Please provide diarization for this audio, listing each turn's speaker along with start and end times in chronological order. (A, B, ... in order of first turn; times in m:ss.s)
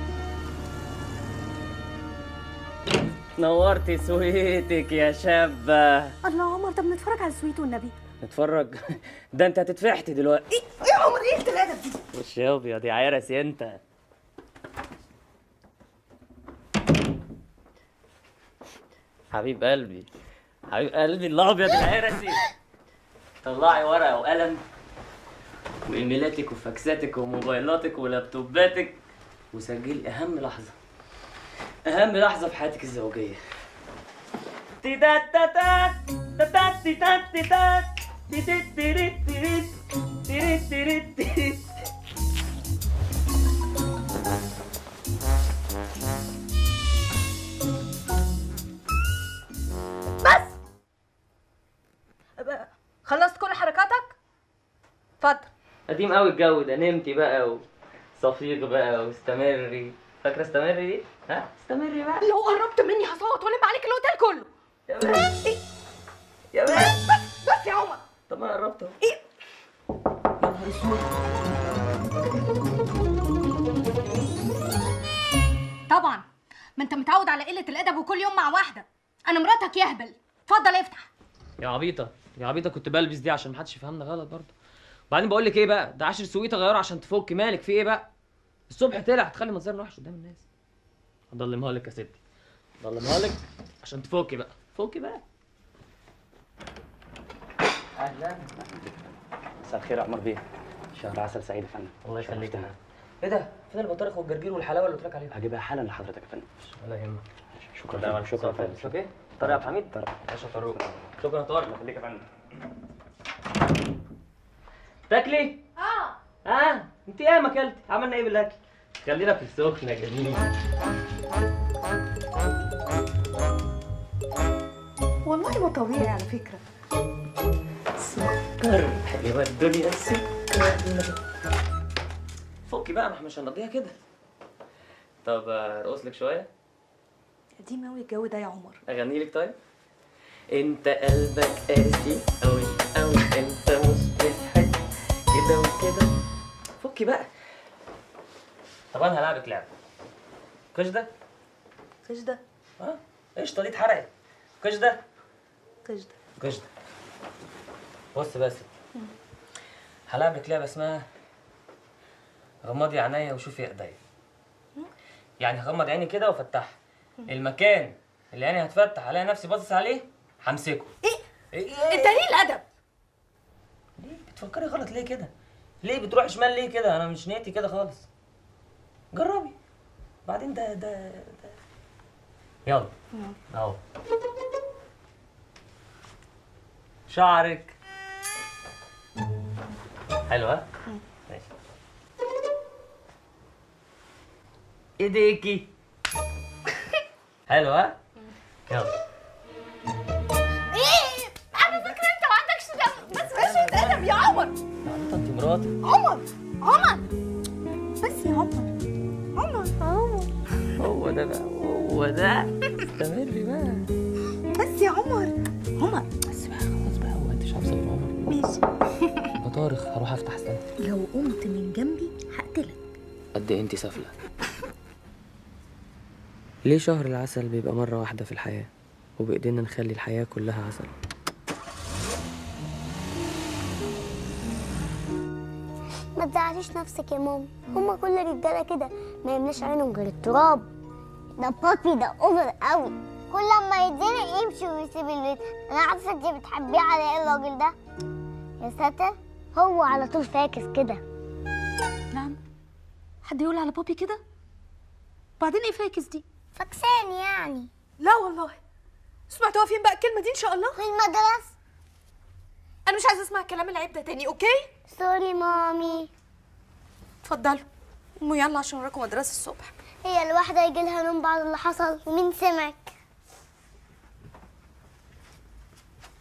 0:03.4-0:06.2 A
0:06.2-0:08.0 B
0:08.2-0:10.6 A
0:10.8-0:12.0 B
0:12.1-0:13.8 A
0:19.3-0:20.1 A
0:20.7-0:22.5 A
0:23.4-0:24.6 A
0:25.9-0:29.0 A
0:29.5-0:30.8 A
0:31.9-0:33.4 A
0:34.8-0:41.6 A
0:50.2-0:50.6 B
0:52.4-0:54.2 B
0:55.2-0:55.5 B
0:55.9-0:57.6 A
0:58.2-1:02.3 A
1:02.2-1:04.5 B
1:04.9-1:05.4 A
1:05.0-1:05.6 B
1:06.5-1:07.0 A
1:06.7-1:08.0 B
1:08.3-1:09.0 A
1:10.4-1:11.1 A
1:15.9-1:16.2 B
1:16.8-1:21.1 B
1:21.6-1:24.5 A
1:25.1-1:28.1 A
1:28.7-1:30.4 A
1:31.3-1:32.2 A
1:32.8-1:35.2 A
1:38.0-1:38.5 A
1:38.6-1:38.9 C
1:39.6-1:40.4 C
1:41.0-1:42.7 C
1:42.0-1:45.4 A
1:45.3-1:46.5 C
1:46.8-1:47.2 A
1:47.8-1:49.0 C
1:47.8-1:51.7 A
1:49.5-1:50.1 C
1:51.7-1:52.2 C
1:55.1-1:55.6 A
1:55.8-1:56.2 B
1:56.4-2:00.5 A
2:05.2-2:06.6 B
2:08.1-2:11.2 A
2:12.7-2:14.0 A
2:15.2-2:16.5 A
2:17.6-2:18.8 B
2:18.9-2:19.6 A
2:20.5-2:26.1 A
2:26.8-2:27.3 A
2:28.9-2:29.7 A
2:30.7-2:31.1 A
2:32.0-2:32.4 B
2:32.8-2:35.0 A
2:35.9-2:36.1 B
2:36.4-2:36.7 A
2:38.1-2:38.7 A
2:40.1-2:41.1 A
2:42.6-2:44.0 A
2:45.4-2:46.8 A
2:47.3-2:50.9 A
2:51.5-2:52.3 A
2:51.8-2:52.6 B
2:54.0-2:55.3 A
2:55.8-2:58.1 A
2:59.1-2:59.6 A
3:00.3-3:01.6 A
3:02.7-3:02.9 A
3:03.5-3:03.8 A
3:07.1-3:07.8 A
3:10.3-3:10.7 A
3:15.0-3:15.7 A
3:17.5-3:18.0 A
3:18.7-3:18.9 A
3:20.7-3:24.6 B
3:23.0-3:24.1 A
3:24.8-3:25.7 A
3:25.8-3:27.1 B
3:28.0-3:28.7 B
3:29.4-3:30.3 B
3:30.8-3:33.9 A
3:34.5-3:36.2 B
3:36.2-3:38.2 A
3:38.3-3:39.3 B
3:39.4-3:40.6 A
3:40.8-3:42.8 B
3:43.4-3:44.1 A
3:46.6-3:51.0 A
3:56.2-4:00.7 D
4:01.4-4:07.7 D
4:08.6-4:11.0 D
4:12.1-4:12.4 B
4:13.2-4:14.2 B
4:15.4-4:16.2 B
4:16.6-4:17.7 D
4:18.0-4:18.6 B
4:19.3-4:20.8 B
4:20.7-4:21.5 D
4:22.9-4:24.7 B
4:24.9-4:26.1 D
4:27.2-4:27.7 B
4:28.2-4:29.8 B
4:30.0-4:32.9 D